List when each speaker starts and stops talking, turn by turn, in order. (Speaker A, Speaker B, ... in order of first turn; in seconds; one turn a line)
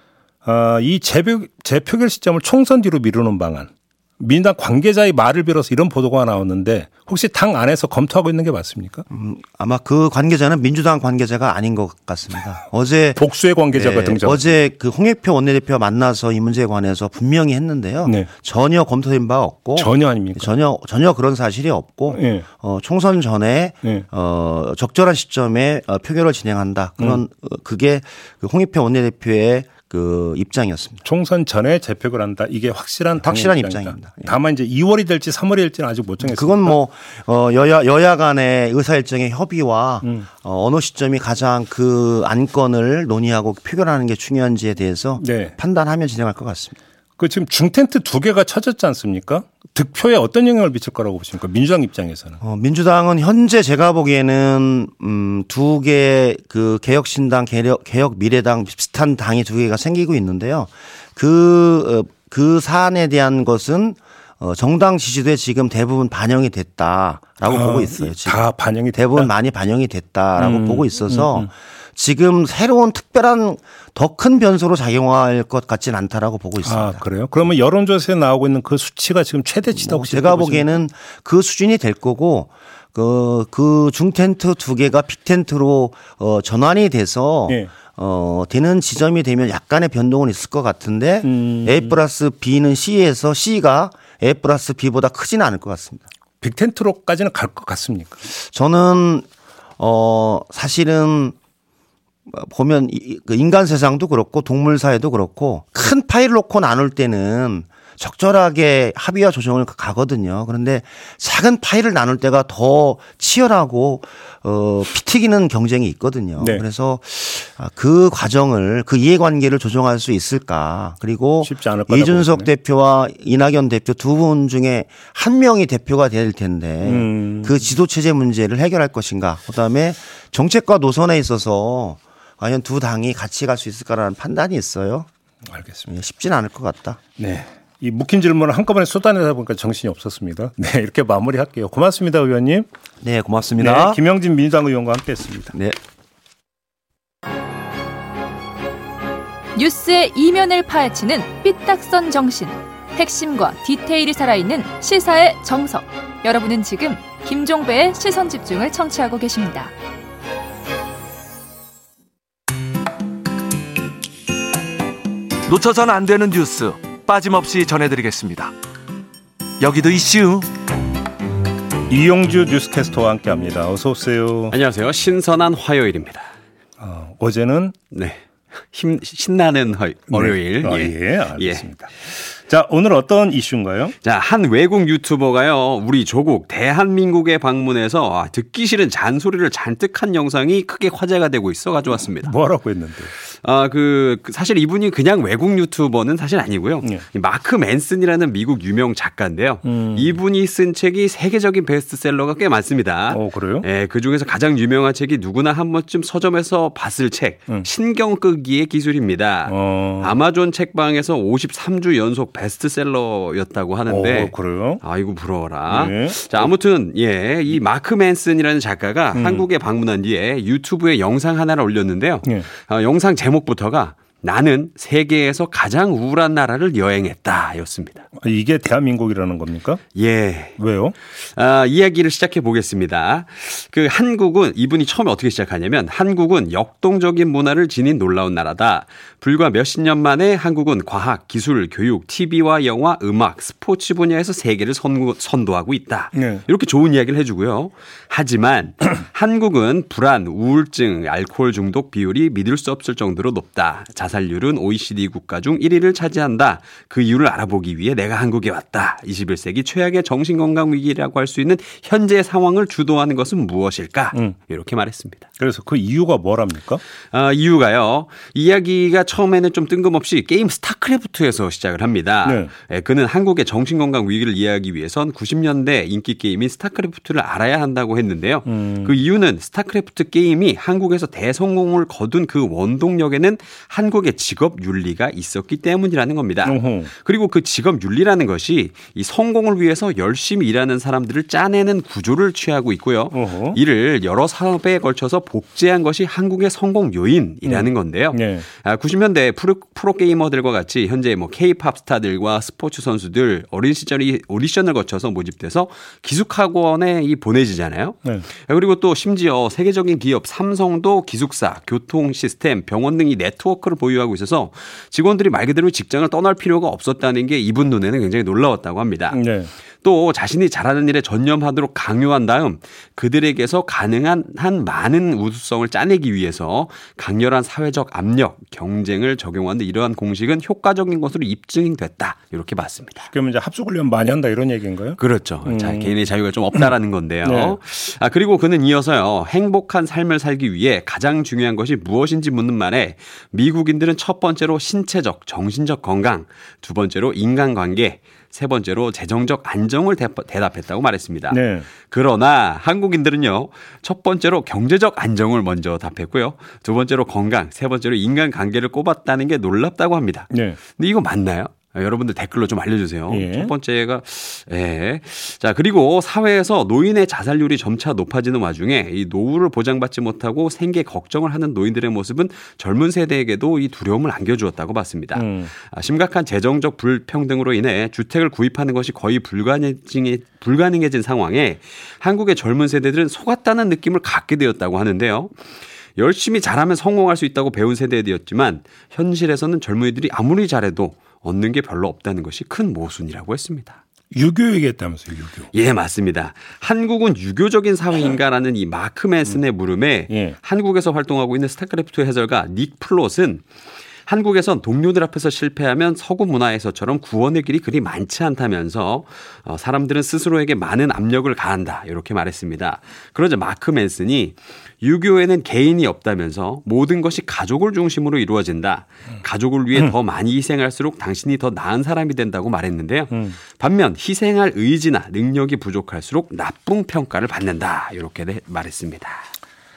Speaker A: 0.4-9.0
Speaker B: 9.1-31.0
Speaker A: 13.2-14.4
Speaker A: 19.8-20.5
Speaker A: 22.1-22.4
Speaker A: 31.0-36.8
Speaker B: 33.2-34.4
Speaker B: 36.2-46.8
Speaker A: 45.2-45.5
Speaker A: 47.2-52.4
Speaker B: 52.4-68.4
Speaker A: 67.5-69.3
Speaker B: 68.9-77.0
Speaker A: 70.4-71.5
Speaker A: 76.6-80.7
Speaker B: 79.7-96.0
Speaker A: 91.2-92.0
Speaker A: 96.4-98.2
Speaker B: 98.3-99.2
Speaker B: 99.8-101.3
Speaker B: 102.3-135.1
Speaker A: 121.4-122.5
Speaker A: 126.8-127.6
Speaker A: 135.5-135.9
Speaker B: 135.9-137.0
Speaker A: 137.2-142.7
Speaker B: 143.0-144.0
Speaker A: 143.6-145.5
Speaker C: 149.6-159.7
Speaker D: 165.5-168.5
Speaker D: 169.6-170.5
Speaker A: 171.9-174.6
Speaker E: 174.5-176.3
Speaker A: 176.8-177.7
Speaker E: 177.9-178.2
Speaker E: 178.7-181.6
Speaker A: 180.1-183.9
Speaker E: 184.0-192.3
Speaker A: 192.2-193.1
Speaker E: 193.3-228.1
Speaker A: 199.6-200.2
Speaker A: 203.1-203.7
Speaker A: 209.5-210.1
Speaker A: 213.9-214.8
Speaker A: 215.7-216.4
Speaker A: 219.1-219.4
Speaker A: 228.2-229.8
Speaker E: 229.9-230.6
Speaker A: 230.6-230.9
Speaker E: 231.2-265.2
Speaker A: 246.1-246.4
Speaker A: 265.4-266.8
Speaker E: 267.1-319.2
Speaker A: 272.2-272.5
Speaker A: 278.5-278.9
Speaker A: 286.4-286.9
Speaker A: 293.1-293.6
Speaker A: 297.4-298.5
Speaker A: 319.1-319.5
Speaker E: 319.8-333.1
Speaker A: 333.1-335.9
Speaker E: 335.0-385.4
Speaker A: 337.2-337.6
Speaker A: 351.3-351.7
Speaker A: 360.3-360.6
Speaker A: 363.1-363.5
Speaker A: 375.1-375.5
Speaker E: 386.0-393.8
Speaker A: 394.1-395.5
Speaker E: 395.5-403.4
Speaker A: 400.1-400.4
Speaker E: 404.1-429.2